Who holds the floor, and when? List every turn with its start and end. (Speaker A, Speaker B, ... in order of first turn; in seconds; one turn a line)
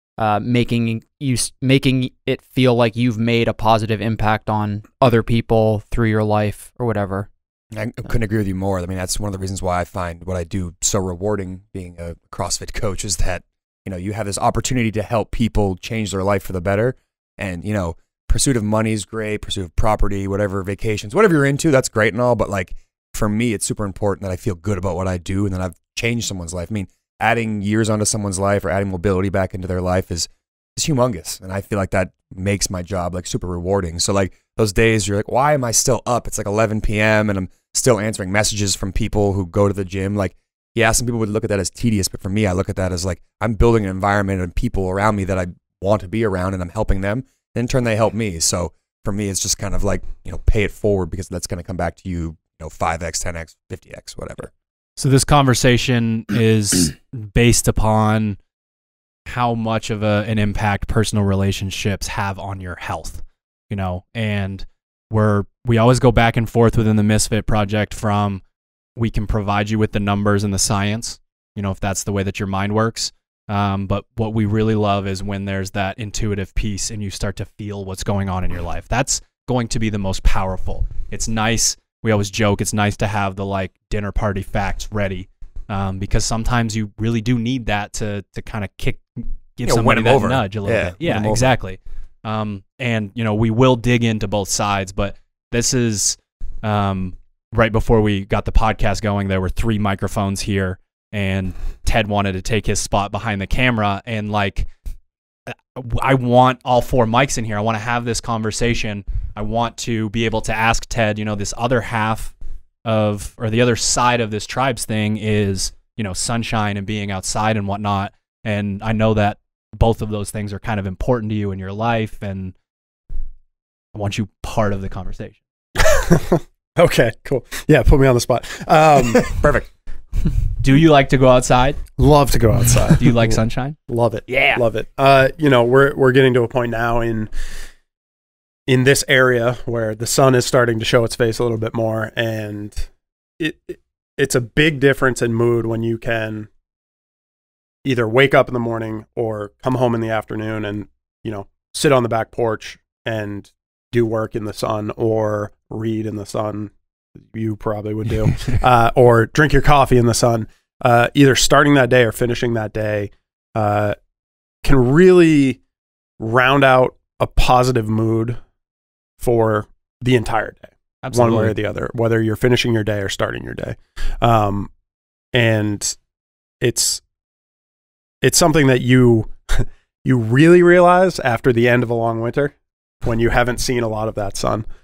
Speaker A: 0.2-7.3
Speaker B: 7.7-54.5
Speaker C: 55.0-58.4
Speaker C: 59.3-68.4
Speaker C: 69.0-104.7
Speaker B: 89.7-91.5
Speaker C: 105.5-112.3
Speaker C: 112.8-122.5
Speaker C: 123.9-125.4
Speaker D: 125.8-129.5
Speaker B: 129.2-129.7
Speaker C: 130.6-131.8
Speaker D: 132.0-137.3
Speaker C: 132.8-134.6
Speaker D: 138.7-146.5
Speaker D: 147.8-156.7
Speaker D: 157.2-164.0
Speaker D: 164.6-165.6
Speaker D: 166.2-168.4
Speaker D: 169.2-174.7
Speaker C: 171.0-171.6
Speaker D: 175.3-176.0
Speaker D: 176.6-177.0
Speaker D: 178.2-184.7